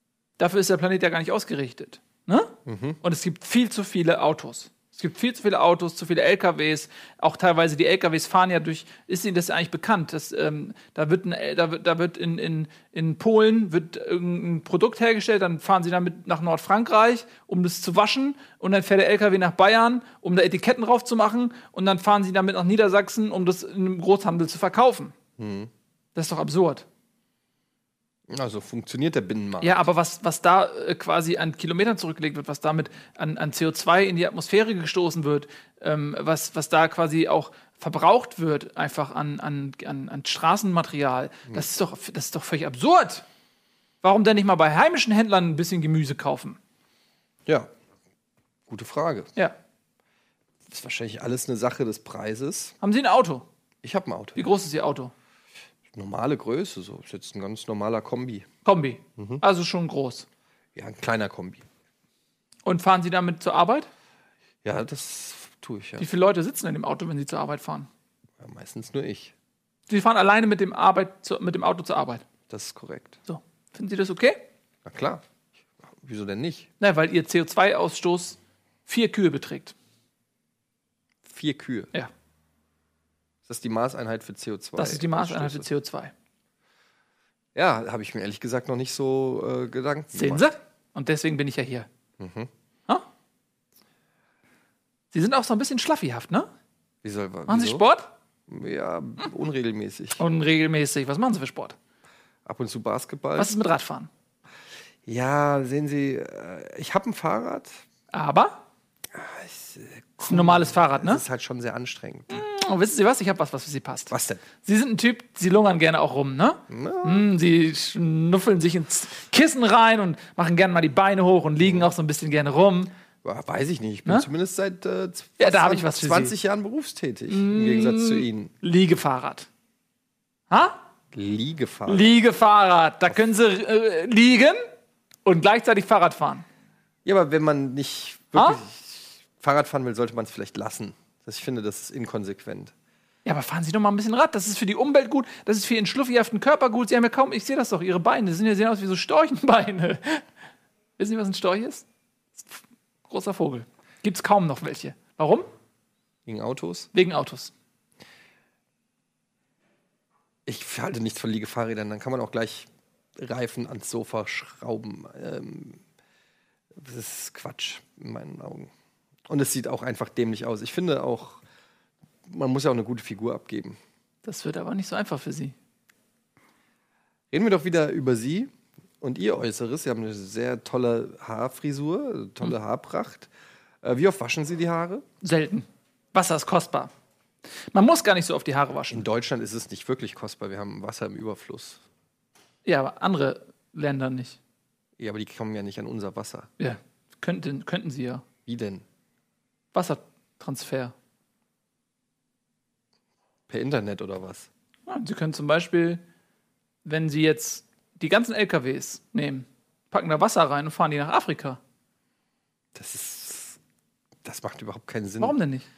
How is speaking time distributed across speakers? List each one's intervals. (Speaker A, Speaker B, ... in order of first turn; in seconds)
Speaker A: 0.4-25.1, 26.1-26.9, 29.6-43.2, 44.0-46.6, 52.8-53.5, 54.4-55.1, 58.6-60.3, 62.6-63.9, 66.0-67.9, 69.9-72.2, 73.3-74.4, 76.8-79.8, 84.8-86.1, 90.1-91.9, 95.1-96.5, 97.5-98.1, 100.2-101.8, 103.4-104.1, 108.1-108.6, 110.3-111.2, 112.3-122.9, 125.4-126.3, 127.3-129.5, 130.5-130.8, 131.9-134.6, 135.3-136.5, 138.3-138.6, 143.2-150.2, 151.0-151.8, 152.4-155.5, 156.9-157.5, 174.2-175.6, 185.2-186.9, 187.7-189.1, 192.7-194.4, 196.6-198.2, 199.7-200.9, 204.9-206.0, 206.8-211.6, 215.2-215.7
Speaker B: 2.7-3.0, 25.4-25.7, 28.3-29.9, 48.7-49.3, 50.7-52.8, 53.8-54.5, 55.9-58.5, 59.2-59.4, 60.8-61.6, 64.6-66.1, 68.4-69.3, 72.5-73.2, 74.8-75.2, 75.8-76.7, 81.3-81.9, 83.5-85.7, 87.5-90.5, 92.2-92.5, 97.0-97.8, 98.5-100.2, 102.5-103.5, 105.1-107.8, 109.1-112.5, 114.1-114.4, 116.7-117.3, 121.6-121.9, 123.2-128.5, 131.1-132.1, 137.1-142.7, 156.3-156.9, 160.5-165.8, 166.7-168.7, 169.3-171.4, 172.3-173.8, 177.3-183.3, 183.8-185.0, 188.9-191.8, 195.0-196.5, 198.5-198.8, 203.5-204.5, 212.8-213.6, 214.2-215.4